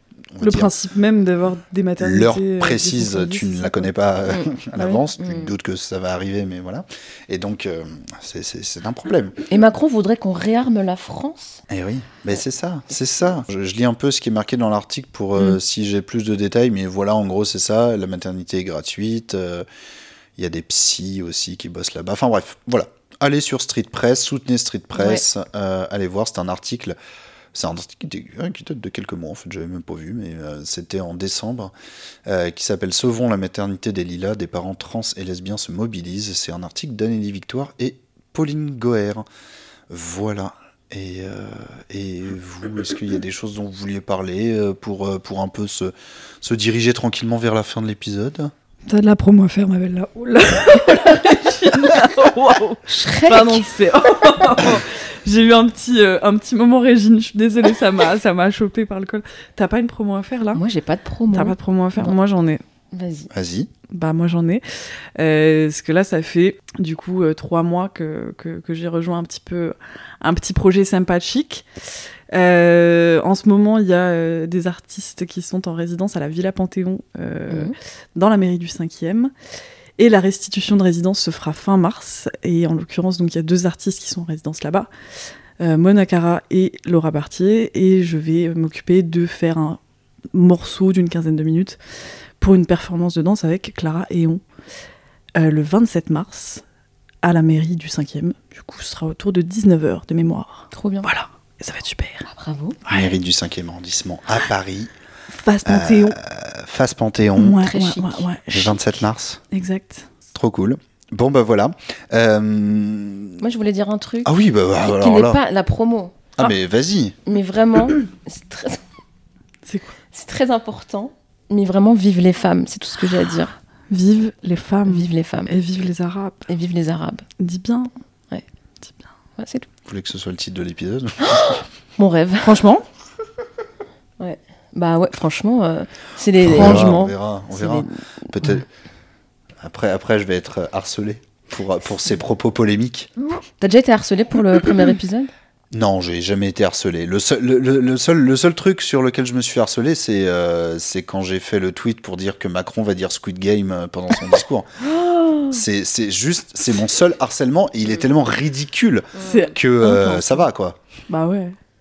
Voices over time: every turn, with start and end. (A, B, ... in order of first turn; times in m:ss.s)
0:00.3-0:00.7 A
0:00.4-0:03.9 B
0:02.0-0:09.4 A
0:05.2-0:05.5 C
0:09.5-0:11.6 C
0:11.7-0:19.6 A
0:20.4-0:27.0 A
0:25.0-0:25.2 C
0:27.5-0:31.7 A
0:32.2-0:39.2 A
0:39.9-0:48.5 A
0:48.8-1:00.6 B
0:52.9-0:53.6 C
1:00.5-1:02.2 C
1:01.3-1:02.6 B
1:02.9-1:03.3 C
1:03.3-1:03.7 A
1:03.9-1:04.6 B
1:05.2-1:11.6 B
1:12.3-1:19.3 B
1:17.5-1:17.7 C
1:20.0-1:24.9 B
1:25.6-1:29.8 B
1:30.3-1:31.8 B
1:32.4-1:34.4 B
1:35.3-1:36.6 B
1:37.2-1:42.3 B
1:40.7-1:41.1 C
1:42.3-1:42.8 C
1:42.8-1:43.2 B
1:42.9-1:44.9 A
1:45.3-1:46.2 B
1:45.6-1:47.6 A
1:47.4-1:48.8 B
1:47.6-1:48.3 C
1:48.5-1:49.4 A
1:49.5-1:50.1 B
1:50.3-1:53.4 A
1:53.4-1:56.1 C
1:54.2-1:55.4 A
1:56.4-1:57.2 A
1:57.2-1:58.8 C
1:59.6-2:00.0 B
2:00.1-2:03.5 C
2:03.9-2:06.4 B
2:04.9-2:05.5 C
2:06.5-2:07.2 C
2:07.4-2:07.9 B
2:09.4-2:09.7 C
2:09.8-2:11.6 A
2:11.2-2:12.6 C
2:12.4-2:12.8 B
2:14.2-2:18.0 C
2:16.4-2:17.1 B
2:16.4-2:18.6 A
2:19.6-2:23.1 A
2:23.6-2:25.3 C
2:25.7-2:34.7 A
2:34.8-2:35.6 B
2:35.5-2:40.8 A
2:39.1-2:39.5 C
2:39.2-2:40.5 B
2:41.1-2:41.5 B